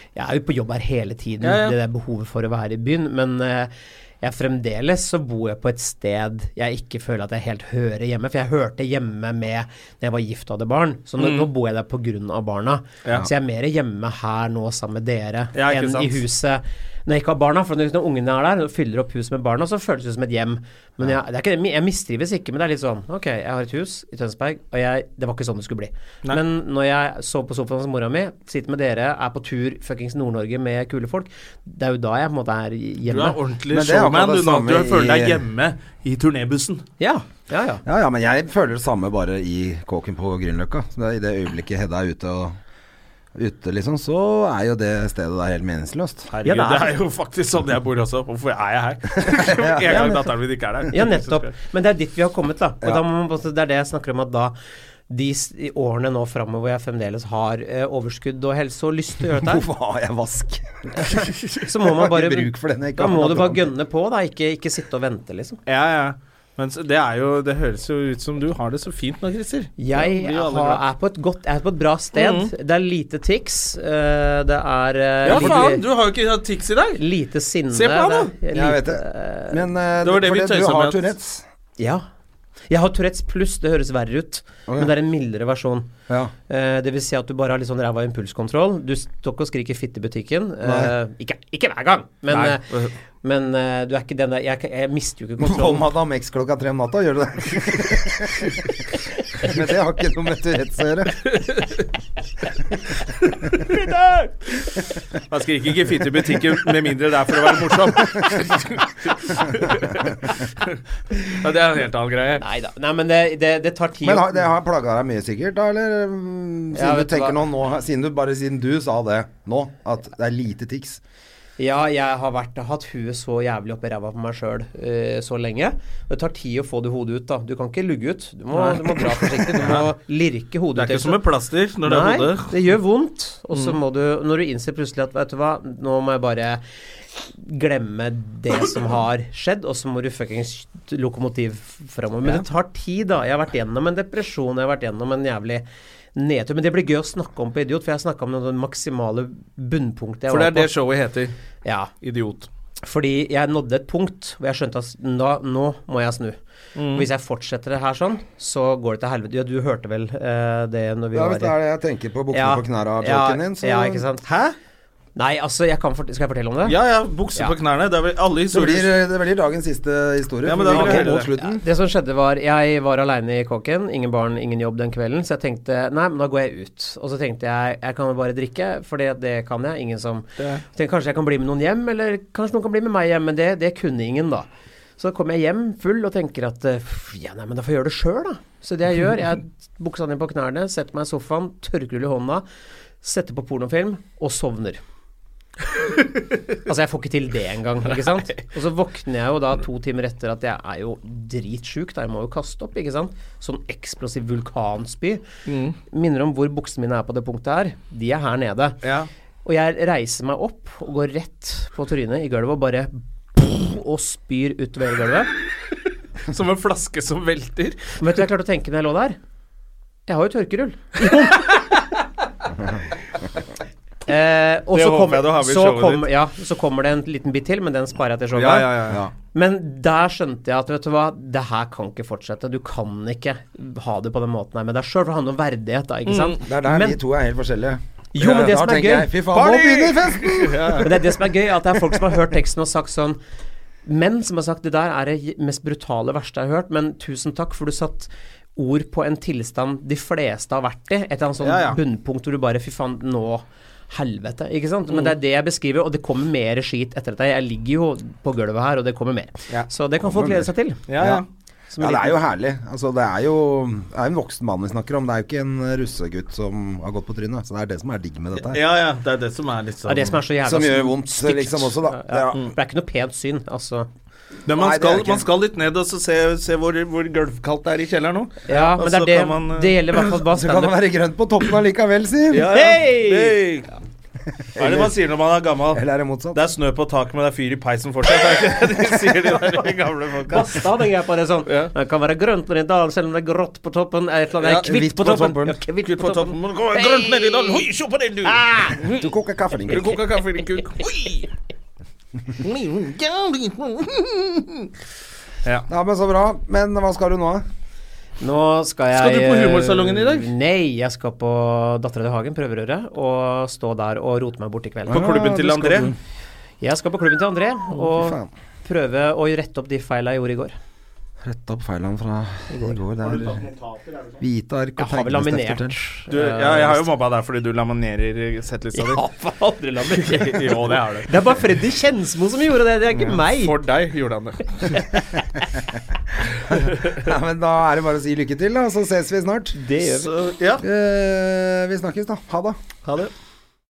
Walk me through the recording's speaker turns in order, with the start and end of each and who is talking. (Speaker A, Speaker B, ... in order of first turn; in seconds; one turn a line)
Speaker A: 0.1-33.4
Speaker B: 1.4-1.8
Speaker B: 11.2-11.5
Speaker B: 15.5-16.2
Speaker B: 33.1-36.8
Speaker C: 33.7-35.4
Speaker A: 37.0-37.8
Speaker C: 37.8-42.5
Speaker C: 43.3-46.3
Speaker B: 46.3-51.5
Speaker A: 46.4-47.0
Speaker C: 49.2-50.1
Speaker A: 50.9-54.5
Speaker A: 55.1-59.6
Speaker C: 59.3-63.7
Speaker A: 61.5-65.6
Speaker B: 65.7-70.8
Speaker A: 69.8-75.8
Speaker B: 72.1-72.5
Speaker B: 75.2-77.0
Speaker C: 75.3-75.7
Speaker A: 77.0-79.6
Speaker B: 77.7-78.3
Speaker C: 78.5-81.4
Speaker B: 80.0-81.0
Speaker A: 81.8-82.0
Speaker A: 82.7-85.9
Speaker C: 84.7-84.9
Speaker A: 86.5-92.7
Speaker C: 90.6-90.9
Speaker B: 92.3-92.9
Speaker A: 93.2-95.9
Speaker C: 95.4-98.6
Speaker C: 99.4-101.3
Speaker B: 101.2-101.9
Speaker B: 103.2-112.4
Speaker A: 112.4-114.4
Speaker C: 114.0-121.0
Speaker A: 116.7-117.4
Speaker A: 121.6-131.2
Speaker B: 128.5-129.9
Speaker B: 130.7-132.5
Speaker A: 131.8-136.6
Speaker A: 137.2-145.6
Speaker A: 146.2-150.7
Speaker B: 150.3-151.3
Speaker A: 151.6-151.9
Speaker B: 152.0-152.5
Speaker A: 152.8-156.4
Speaker B: 156.8-157.1
Speaker A: 156.9-161.5
Speaker C: 161.1-164.0
Speaker A: 162.3-164.3
Speaker B: 164.2-164.6
Speaker A: 165.2-166.8
Speaker B: 166.7-168.9
Speaker C: 168.5-171.6
Speaker B: 170.4-171.3
Speaker A: 170.7-184.5
Speaker B: 180.4-180.6
Speaker A: 185.0-192.4
Speaker A: 193.0-194.8
Speaker A: 196.6-205.2
Speaker B: 205.5-205.8
Speaker A: 205.9-208.8
Speaker B: 208.8-209.1
Speaker A: 209.4-215.3
Speaker B: 216.3-218.0
Speaker A: 218.0-219.2
Speaker A: 220.1-221.7
Speaker A: 224.1-228.7
Speaker B: 224.7-226.1
Speaker B: 228.3-229.0
Speaker C: 228.9-229.1
Speaker A: 229.3-237.0
Speaker B: 236.1-236.4
Speaker C: 236.4-240.8
Speaker A: 238.1-239.1
Speaker B: 239.3-240.9
Speaker A: 240.8-243.2
Speaker A: 243.8-260.8
Speaker B: 251.4-251.8
Speaker B: 254.9-255.1
Speaker C: 260.0-261.2
Speaker B: 260.9-261.2
Speaker A: 261.7-262.1
Speaker C: 261.8-268.6
Speaker B: 268.4-270.2
Speaker A: 269.9-273.9
Speaker C: 270.4-272.4
Speaker B: 274.4-280.1
Speaker C: 274.5-275.3
Speaker A: 278.5-280.8
Speaker C: 280.3-282.5
Speaker B: 282.3-283.7
Speaker A: 282.5-283.4
Speaker C: 284.5-284.9
Speaker B: 284.6-290.7
Speaker C: 285.7-286.4
Speaker A: 290.3-297.6
Speaker B: 291.5-291.7
Speaker B: 294.4-294.7
Speaker C: 294.6-295.6
Speaker B: 295.8-299.1
Speaker A: 298.2-298.9
Speaker C: 298.9-300.0
Speaker B: 299.7-301.3
Speaker B: 302.4-304.7
Speaker C: 305.7-307.4
Speaker A: 308.2-315.1
Speaker B: 308.9-310.3
Speaker B: 314.9-315.9
Speaker C: 314.9-316.0
Speaker A: 316.6-320.6
Speaker C: 317.9-318.3
Speaker C: 321.2-323.4
Speaker A: 322.5-322.8
Speaker B: 323.0-324.2
Speaker C: 324.2-325.8
Speaker A: 324.8-326.9
Speaker B: 326.1-329.0
Speaker A: 328.7-333.5
Speaker B: 329.8-331.1
Speaker B: 332.9-334.9
Speaker B: 336.5-337.1
Speaker C: 336.5-339.6
Speaker A: 339.6-340.1
Speaker B: 339.8-340.6
Speaker C: 340.6-342.6
Speaker B: 342.8-343.1